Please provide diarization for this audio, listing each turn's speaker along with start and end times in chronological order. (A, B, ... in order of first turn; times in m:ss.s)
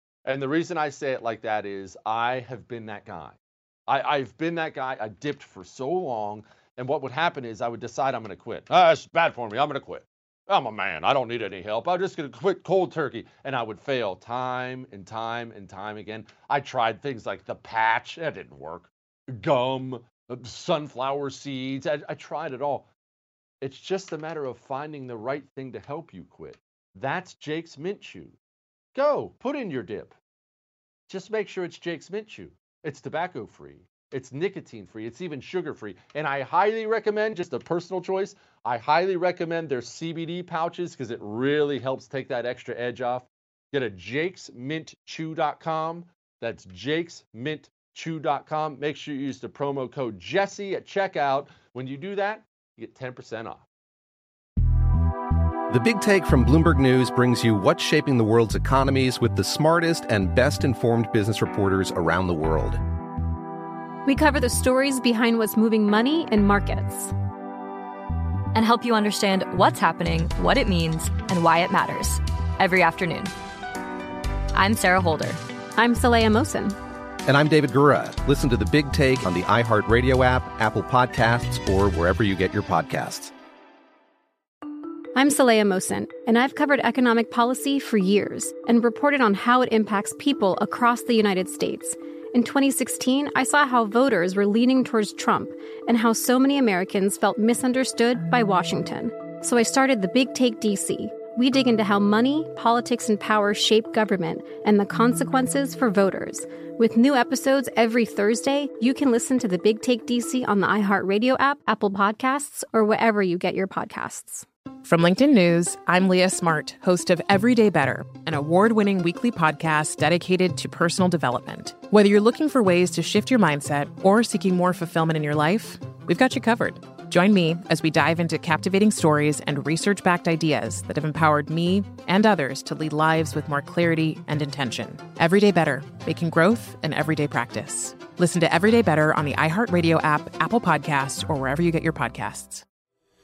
0:00.3-0:22.9 A
0:23.6-0:28.4 A
0:29.0-0:30.1 A
0:31.1-0:53.6 A
0:55.7-1:02.8 B
1:04.1-1:07.1 C
1:08.5-1:13.3 D
1:14.5-1:15.4 D
1:15.8-1:16.8 C
1:17.3-1:23.3 B
1:25.2-1:54.5 C
1:54.8-2:22.6 E